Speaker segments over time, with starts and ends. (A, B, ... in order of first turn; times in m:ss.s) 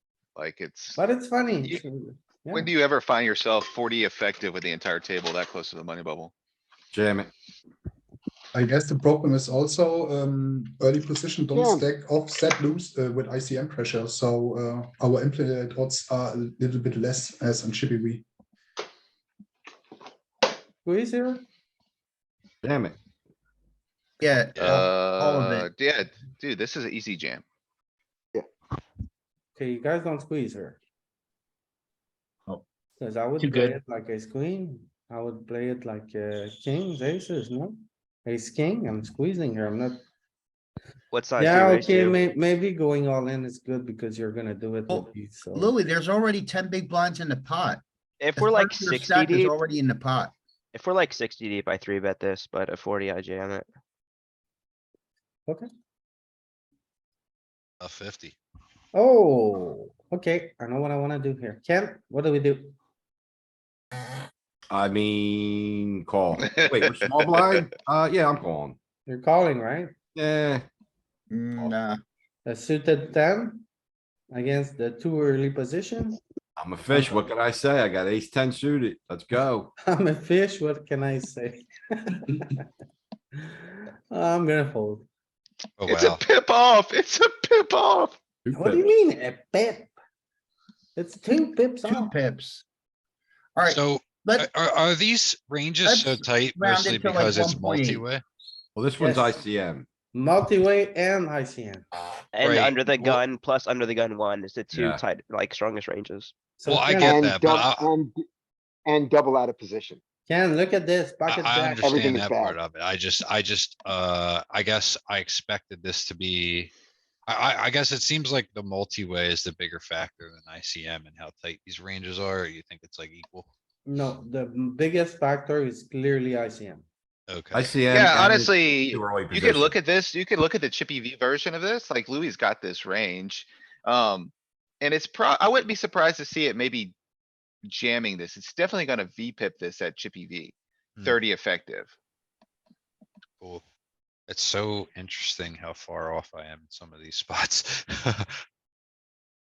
0:00.3-0:01.0 A
0:01.0-0:02.7 B
0:02.5-0:06.3 A
0:06.9-0:07.3 C
0:08.5-0:18.2 D
0:11.5-0:11.9 E
0:20.8-0:21.4 B
0:22.6-0:23.0 C
0:24.2-0:25.7 F
0:24.6-0:24.8 G
0:24.8-0:27.4 A
0:29.6-0:30.8 B
0:33.0-0:40.0 B
0:41.1-0:42.2 H
0:41.4-0:45.7 B
0:44.9-0:47.8 F
0:48.2-0:49.6 H
0:48.4-0:50.3 F
0:50.7-0:53.6 H
0:57.8-0:58.3 G
0:58.9-1:02.7 B
1:04.7-1:08.8 C
1:09.1-1:09.9 B
1:10.1-1:10.6 C
1:11.3-1:11.8 F
1:12.4-1:13.6 B
1:14.3-1:16.2 B
1:16.6-1:19.7 C
1:19.9-1:22.6 B
1:23.4-1:25.0 B
1:25.8-1:26.2 G
1:25.8-1:28.2 A
1:28.5-1:28.8 C
1:28.5-1:29.9 B
1:31.0-1:32.1 B
1:31.8-1:32.6 F
1:33.6-1:34.5 F
1:33.7-1:38.2 G
1:35.8-1:38.0 F
1:38.7-1:39.8 C
1:39.0-1:39.4 B
1:40.1-1:41.8 B
1:42.3-1:46.3 H
1:42.4-1:43.2 G
1:44.7-1:45.0 C
1:46.6-1:47.2 B
1:46.6-1:47.9 G
1:46.9-1:48.2 E
1:48.8-1:50.0 E
1:50.3-1:52.1 B
1:51.3-1:56.7 G
1:51.8-1:52.6 E
1:57.3-2:03.5 G
2:03.8-2:06.8 B
2:07.3-2:07.8 G
2:07.5-2:09.7 C
2:07.8-2:16.9 A
2:17.6-2:21.9 A
2:24.3-2:28.3 G